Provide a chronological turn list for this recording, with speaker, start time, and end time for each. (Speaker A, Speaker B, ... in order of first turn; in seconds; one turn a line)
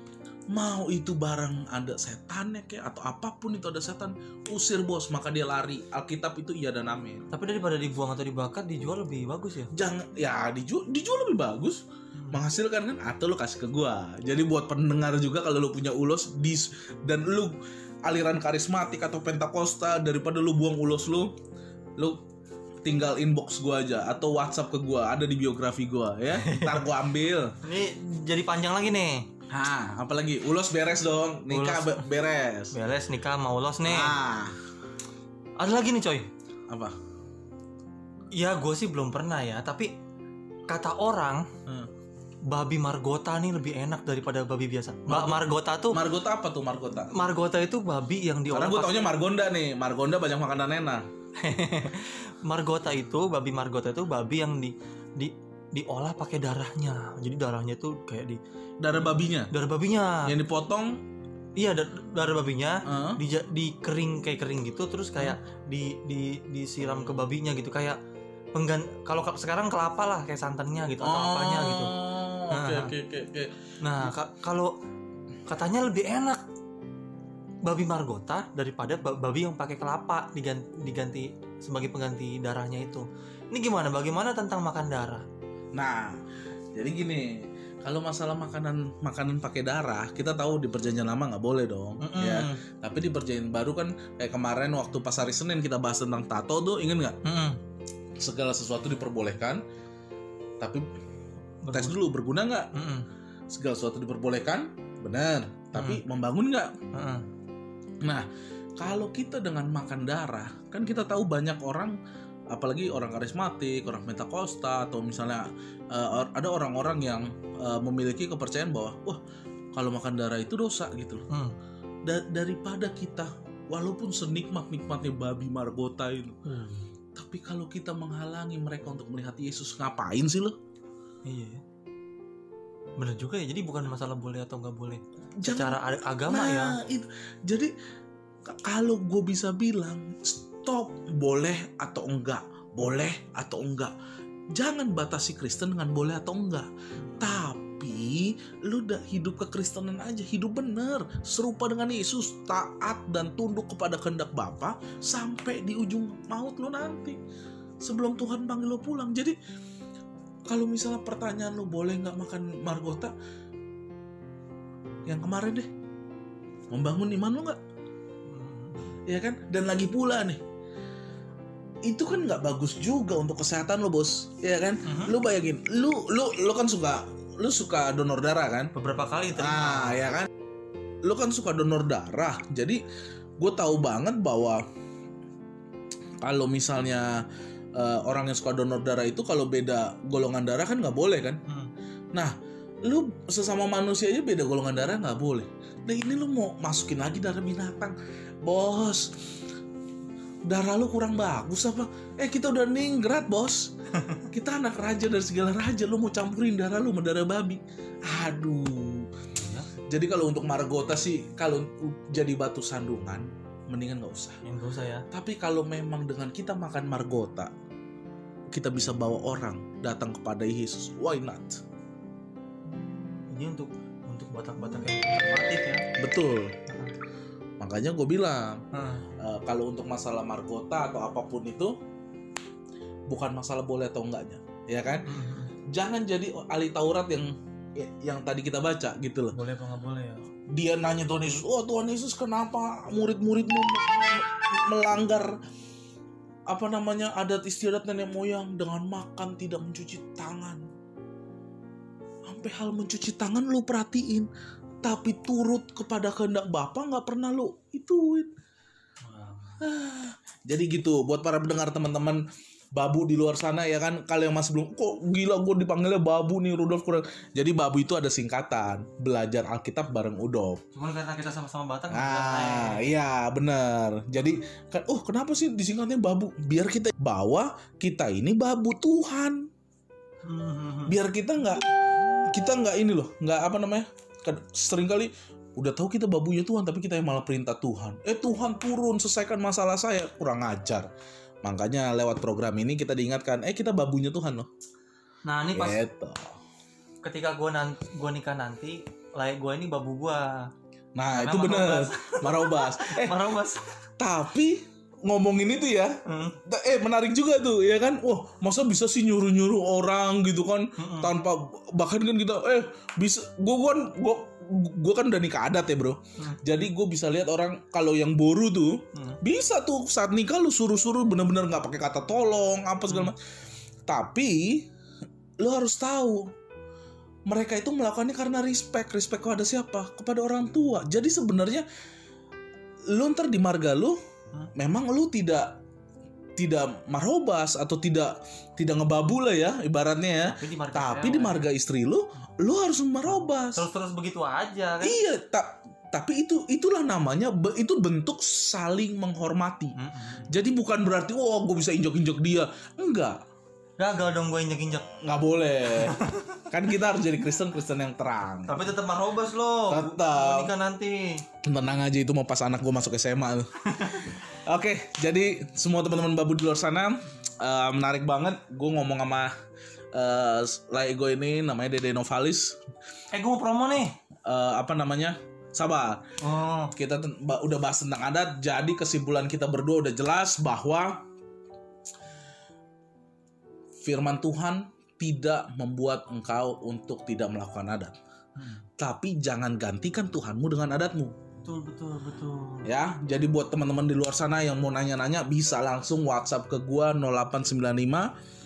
Speaker A: 0.5-7.3
Speaker B: 7.3-9.7
Speaker A: 9.7-21.3
Speaker B: 12.2-12.4
Speaker A: 22.0-22.2
Speaker A: 22.8-27.5
Speaker B: 26.3-26.9
Speaker B: 27.6-29.2
Speaker A: 29.5-32.7
Speaker B: 31.5-32.0
Speaker B: 32.7-34.1
Speaker A: 33.8-34.6
Speaker B: 35.6-36.3
Speaker A: 36.7-37.0
Speaker B: 38.3-39.9
Speaker B: 40.7-41.5
Speaker B: 42.5-46.0
Speaker A: 45.1-47.1
Speaker B: 47.1-49.1
Speaker A: 48.5-51.0
Speaker B: 51.4-58.4
Speaker A: 58.8-59.5
Speaker B: 59.0-60.3
Speaker A: 60.2-61.0
Speaker B: 61.5-68.0
Speaker A: 62.9-63.2
Speaker B: 68.5-72.0
Speaker A: 71.0-73.6
Speaker B: 72.5-72.9
Speaker B: 73.8-74.7
Speaker B: 75.5-76.4
Speaker B: 77.6-85.2
Speaker A: 85.7-86.2
Speaker A: 86.7-97.2
Speaker B: 92.0-92.6
Speaker B: 97.2-97.6
Speaker A: 98.2-99.6
Speaker A: 100.6-100.9
Speaker B: 101.6-102.0
Speaker A: 101.7-102.7
Speaker B: 102.7-103.0
Speaker A: 103.5-106.7
Speaker B: 105.7-106.0
Speaker B: 106.9-107.2
Speaker A: 108.8-112.0
Speaker A: 112.5-119.2
Speaker A: 119.7-121.2
Speaker B: 121.3-121.5
Speaker A: 122.0-126.4
Speaker B: 126.5-126.9
Speaker A: 127.1-130.6
Speaker B: 131.2-131.6
Speaker B: 133.0-136.8
Speaker A: 135.4-137.7
Speaker A: 138.4-143.9
Speaker A: 144.5-157.2
Speaker B: 147.0-147.4
Speaker A: 157.8-159.3
Speaker A: 160.5-163.1
Speaker A: 165.1-165.7
Speaker A: 166.7-167.6
Speaker B: 168.3-168.9
Speaker A: 169.1-170.4
Speaker A: 171.8-178.7
Speaker B: 174.8-175.1
Speaker B: 178.7-180.1
Speaker A: 179.4-180.3
Speaker A: 181.0-182.8
Speaker A: 183.4-184.6
Speaker A: 186.2-187.2
Speaker A: 187.7-191.4
Speaker A: 192.1-199.1
Speaker A: 200.4-203.7
Speaker B: 203.9-204.2
Speaker A: 204.3-209.1
Speaker B: 209.3-209.7
Speaker A: 209.9-214.4
Speaker B: 214.4-215.0
Speaker A: 215.1-217.5
Speaker A: 218.5-221.6
Speaker B: 223.3-225.8
Speaker A: 226.0-226.6
Speaker B: 226.7-226.9
Speaker A: 227.6-228.6
Speaker B: 228.7-229.0
Speaker A: 229.2-231.7
Speaker A: 233.1-235.1
Speaker B: 235.0-235.5
Speaker A: 235.7-239.3
Speaker B: 239.3-240.2
Speaker A: 240.5-245.3
Speaker A: 246.5-250.6
Speaker A: 252.3-254.3
Speaker A: 254.8-258.3
Speaker B: 259.0-259.6
Speaker A: 259.6-262.2
Speaker A: 262.7-270.6
Speaker B: 270.7-272.9
Speaker A: 271.9-279.5
Speaker B: 280.2-280.9
Speaker A: 280.9-281.6
Speaker A: 282.2-290.9
Speaker A: 291.4-294.5
Speaker B: 295.2-295.8
Speaker A: 295.5-296.3
Speaker B: 297.0-300.5
Speaker A: 300.9-303.2
Speaker B: 301.1-303.7
Speaker A: 304.0-323.2
Speaker B: 306.1-306.4
Speaker B: 310.8-311.1
Speaker B: 318.9-319.2
Speaker A: 323.9-324.7
Speaker A: 325.4-326.3
Speaker A: 327.3-331.6
Speaker A: 332.9-334.0
Speaker A: 334.6-335.6
Speaker A: 336.4-343.7
Speaker B: 340.3-341.4
Speaker B: 343.1-345.0
Speaker A: 344.8-349.7
Speaker B: 349.8-350.3
Speaker A: 350.3-353.2
Speaker B: 353.8-354.9
Speaker A: 355.0-358.6
Speaker B: 355.8-356.4
Speaker B: 358.5-361.2
Speaker A: 359.7-360.5
Speaker A: 361.4-369.3
Speaker B: 363.6-364.1
Speaker A: 369.9-372.6
Speaker B: 373.1-373.9
Speaker A: 374.2-376.0
Speaker B: 376.2-376.7
Speaker A: 376.7-381.0
Speaker A: 383.8-388.0
Speaker B: 388.4-388.6
Speaker A: 388.8-391.1
Speaker B: 391.4-392.7
Speaker A: 392.6-398.1